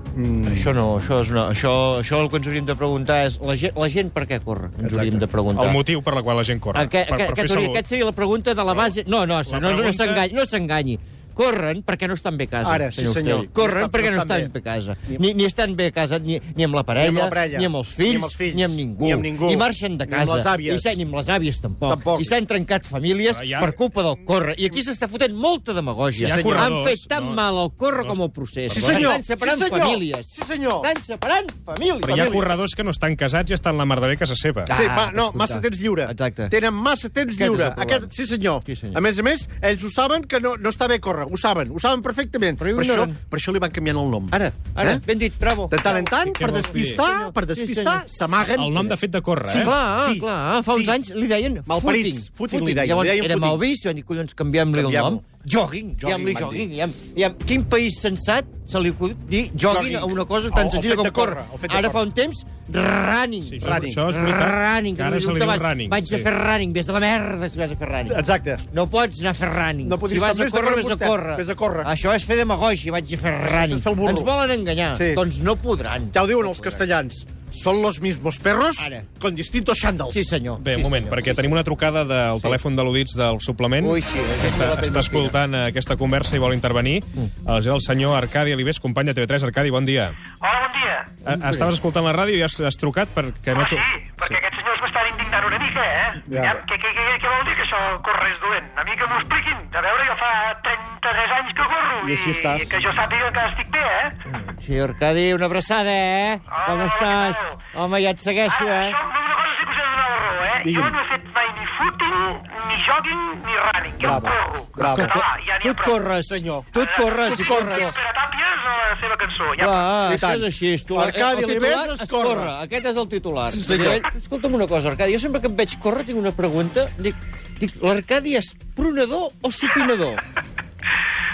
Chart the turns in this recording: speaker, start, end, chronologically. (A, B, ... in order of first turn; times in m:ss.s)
0:00.2-0:00.8 A
0:00.4-0:05.8 B
0:04.8-0:05.3 A
0:05.6-0:07.8 C
0:06.7-0:32.4 B
0:09.5-0:10.3 C
0:12.6-0:14.5 A
0:17.0-0:21.0 A
0:21.9-0:22.3 A
0:23.3-0:23.8 C
0:26.2-0:27.4 C
0:26.2-0:26.8 A
0:28.0-0:29.2 C
0:28.7-0:30.9 A
0:32.0-0:32.5 A
0:32.0-0:34.7 C
0:34.7-0:36.6 B
0:34.7-0:45.0 A
0:37.3-0:38.1 B
0:38.6-0:39.0 B
0:42.6-0:43.2 B
0:44.3-0:48.1 B
0:45.7-0:48.9 A
0:46.2-0:47.0 C
0:48.5-0:49.7 C
0:49.5-1:08.2 B
0:49.5-0:51.0 A
0:51.7-0:53.7 A
0:54.7-0:55.2 A
0:56.0-0:56.7 A
0:59.7-1:02.1 A
1:03.4-1:06.3 C
1:03.6-1:04.0 A
1:08.1-1:08.6 A
1:08.7-1:16.9 B
1:09.8-1:11.9 A
1:13.4-1:14.3 A
1:14.9-1:15.2 A
1:16.1-1:20.4 A
1:18.8-1:19.1 B
1:20.1-1:21.5 B
1:20.6-1:30.2 C
1:23.8-1:25.4 B
1:30.4-1:31.2 D
1:31.2-1:34.4 C
1:31.3-1:31.7 B
1:33.5-1:44.2 D
1:36.3-1:36.6 A
1:42.0-1:42.8 A
1:44.3-1:49.0 B
1:46.5-1:47.6 D
1:48.5-1:56.1 D
1:50.6-1:51.0 A
1:54.0-1:55.2 A
1:54.8-1:58.0 B
1:56.3-1:56.7 A
1:56.7-1:59.8 D
1:57.2-1:58.0 A
1:59.6-2:10.2 B
2:00.1-2:02.5 A
2:03.5-2:04.1 A